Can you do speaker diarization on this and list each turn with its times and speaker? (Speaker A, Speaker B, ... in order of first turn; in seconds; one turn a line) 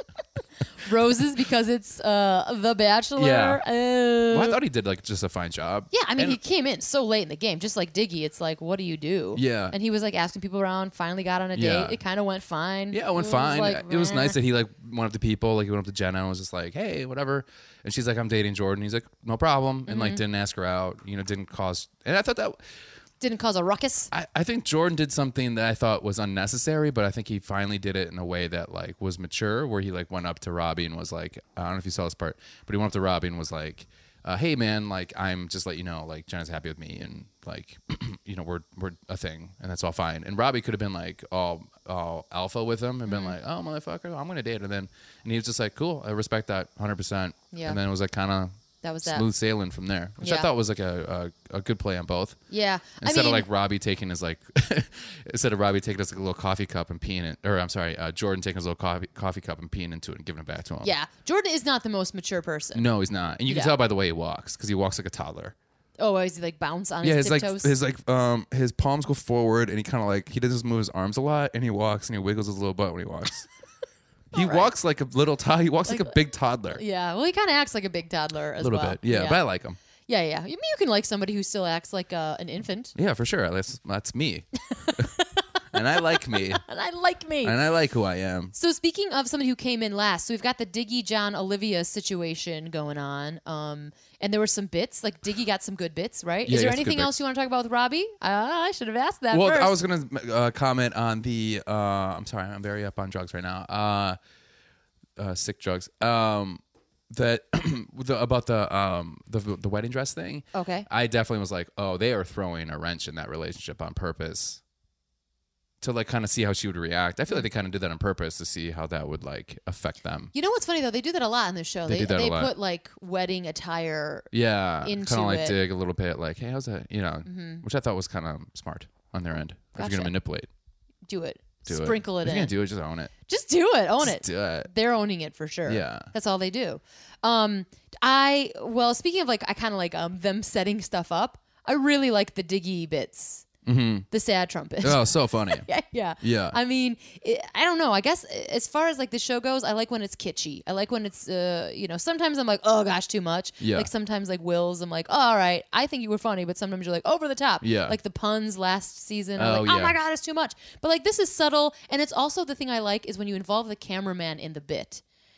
Speaker A: 0.7-4.6
Speaker B: 3.1-3.6
Speaker B: 4.3-6.4
Speaker A: 5.9-14.4
Speaker B: 9.3-9.8
Speaker B: 11.5-12.0
Speaker B: 12.9-22.6
Speaker A: 19.9-20.2
Speaker A: 23.2-24.1
Speaker B: 24.1-52.4
Speaker A: 43.0-43.4
Speaker A: 47.5-47.8
Speaker A: 48.8-49.2
Speaker A: 50.2-50.5
Speaker A: 52.5-53.5
Speaker B: 53.0-60.9
Speaker A: 60.8-62.9
Speaker B: 62.7-65.5
Speaker A: 63.5-63.7
Speaker A: 66.0-67.7
Speaker B: 67.0-73.5
Speaker B: 74.3-76.8
Speaker A: 74.3-74.7
Speaker A: 75.9-76.2
Speaker A: 76.7-79.4
Speaker B: 78.6-79.8
Speaker A: 80.1-82.9
Speaker B: 83.0-85.1
Speaker A: 84.7-87.6
Speaker B: 85.7-86.6
Speaker B: 87.4-88.5
Speaker A: 88.5-99.8
Speaker B: 96.5-97.2
Speaker B: 99.3-104.2
Speaker B: 105.2-114.6
Speaker A: 110.5-110.9
Speaker B: 115.8-120.3
Speaker A: 120.3-124.3
Speaker B: 121.9-122.5
Speaker B: 124.3-130.5
Speaker A: 124.8-125.6
Speaker A: 127.2-127.6
Speaker A: 129.8-130.1
Speaker A: 131.1-132.5
Speaker B: 131.7-133.1
Speaker A: 133.3-143.4
Speaker B: 134.0-134.7
Speaker B: 135.7-136.1
Speaker B: 143.6-144.1
Speaker A: 144.1-165.0
Speaker B: 144.8-145.7
Speaker B: 146.2-146.6
Speaker B: 153.6-153.9
Speaker B: 157.6-158.0
Speaker B: 159.4-160.0